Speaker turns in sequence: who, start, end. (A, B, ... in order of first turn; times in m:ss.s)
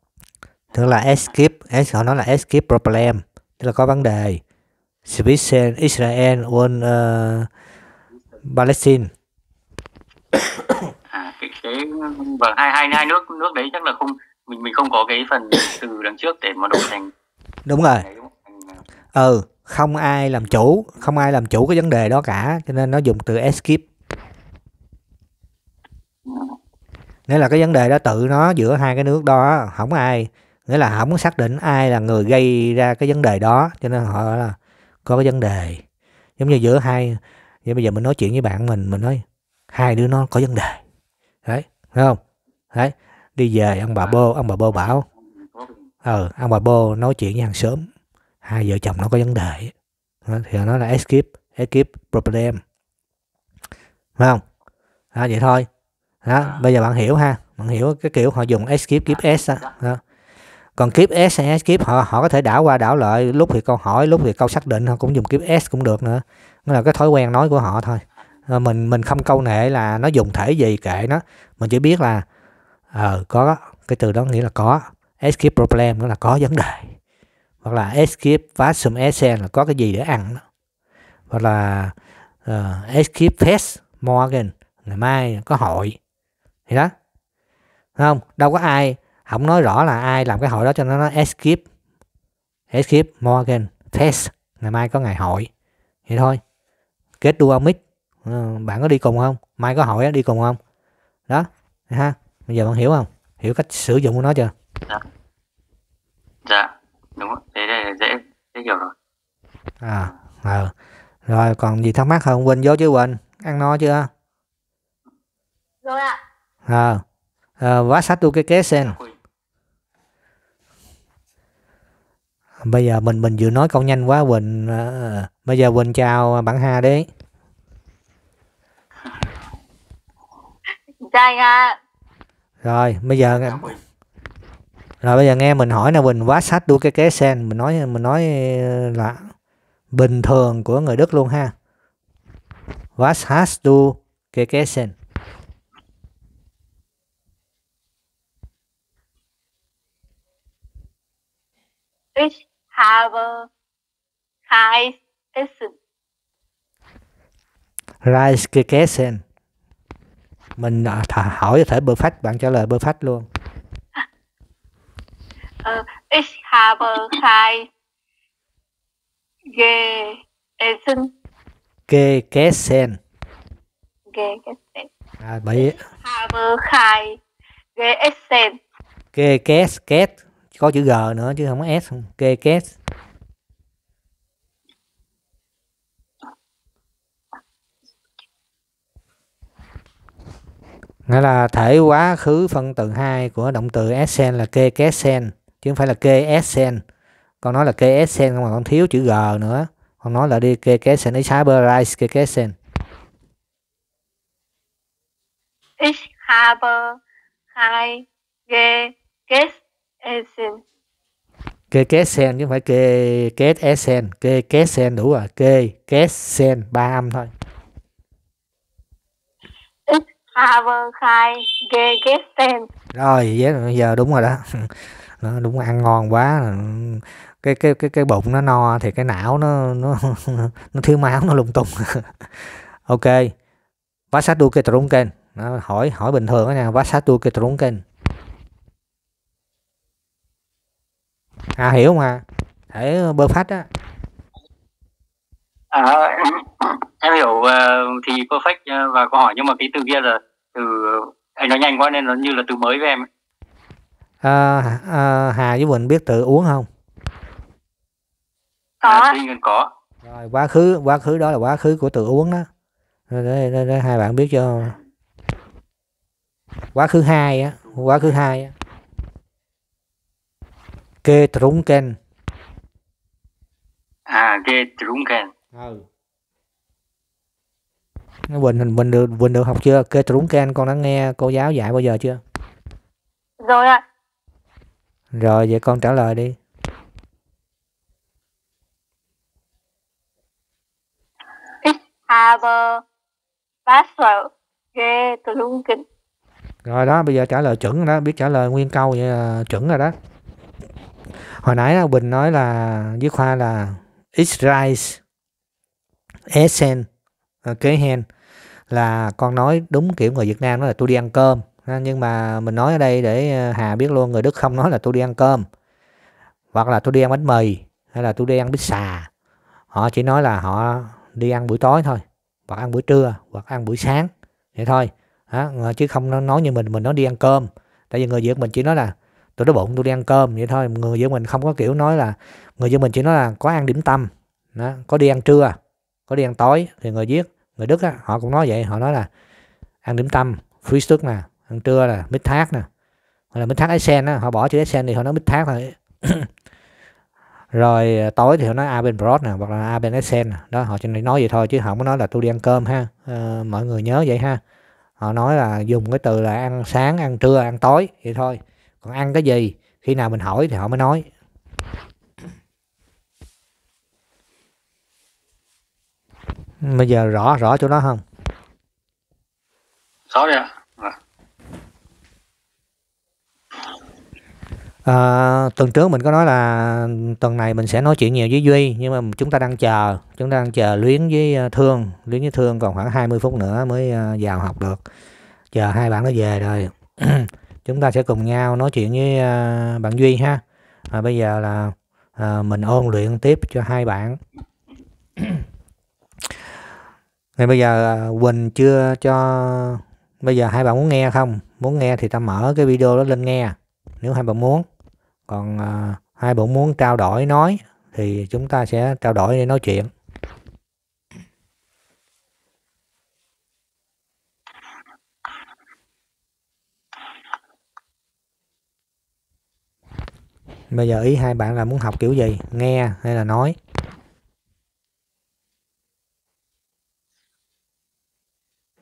0:00.7-0:04.4 A
0:05.1-0:07.5 A
0:08.4-0:09.1 A
0:11.1-0:17.1 B
0:17.7-0:18.1 A
0:17.8-0:18.8 B
0:19.1-0:23.8 A
0:26.3-0:26.6 B
0:27.3-0:35.8 A
0:36.4-0:40.8 A
0:41.4-0:42.2 A
0:42.7-0:45.1 A
0:44.7-0:45.9 B
0:46.0-0:47.9 A
0:48.4-0:49.7 A
0:50.3-0:52.6 A
0:55.1-0:55.7 A
0:56.2-1:00.0 A
0:59.1-0:59.8 B
1:00.8-1:12.2 A
1:12.9-1:17.0 A
1:17.6-1:20.4 A
1:21.3-1:21.9 A
1:22.4-1:26.0 A
1:28.0-1:31.6 A
1:32.7-1:35.5 A
1:36.1-1:36.4 A
1:37.2-1:40.6 A
1:41.3-1:44.5 A
1:46.5-1:48.9 B
1:49.8-1:50.7 A
1:51.3-1:54.1 A
1:55.8-1:56.2 C
1:56.7-1:57.0 A
1:57.6-1:59.0 A
1:58.8-1:59.2 B
2:02.6-2:07.1 A
2:11.0-2:11.8 C
2:12.6-2:13.7 A
2:13.3-2:13.8 B
2:15.0-2:19.3 A
2:19.9-2:21.5 A
2:23.0-2:25.0 A
2:32.2-2:33.5 C
2:34.5-2:35.8 C
2:38.0-2:39.2 A
2:40.6-2:43.3 A
2:45.6-2:47.7 C
2:49.5-2:51.1 C
2:51.9-2:53.0 A
2:54.1-2:54.9 C
2:55.2-2:55.8 A
2:55.6-2:57.2 C
2:57.8-2:58.6 C
2:59.2-3:02.7 A
3:11.1-3:16.8 A
3:17.4-3:22.6 A
3:25.8-3:27.0 C
3:27.6-3:30.6 C
3:31.7-3:37.3 A
3:39.9-3:42.7 C
3:42.9-3:53.3 A
3:54.1-3:57.8 A
4:01.6-4:03.7 A
4:05.7-4:13.1 B
4:14.2-4:16.7 A
4:18.8-4:19.2 C
4:18.8-4:19.7 B
4:20.0-4:22.5 A
4:23.1-4:24.8 A
4:26.8-4:28.5 A
4:27.6-4:28.2 B
4:31.0-4:32.0 A
4:34.1-4:35.3 B
4:35.5-4:35.8 A
4:38.3-4:42.2 A
4:43.4-4:43.8 C
4:45.1-4:46.4 A
4:51.6-4:52.8 C
4:53.7-4:55.8 C
4:56.6-4:59.9 A
5:01.3-5:05.0 A
5:06.3-5:06.9 A
5:07.4-5:08.0 A
5:08.7-5:15.5 A
5:16.5-5:19.1 A
5:19.7-5:35.6 A
5:36.1-5:39.1 A
5:39.8-5:42.7 A
5:43.3-5:46.3 A
5:47.5-5:54.4 A
5:55.0-6:01.1 A
6:06.6-6:08.0 A
6:10.1-6:11.0 B
6:14.8-6:24.8 A
6:25.5-6:34.2 A
6:37.4-6:44.7 A
6:45.3-6:49.9 A
7:00.7-7:03.6 A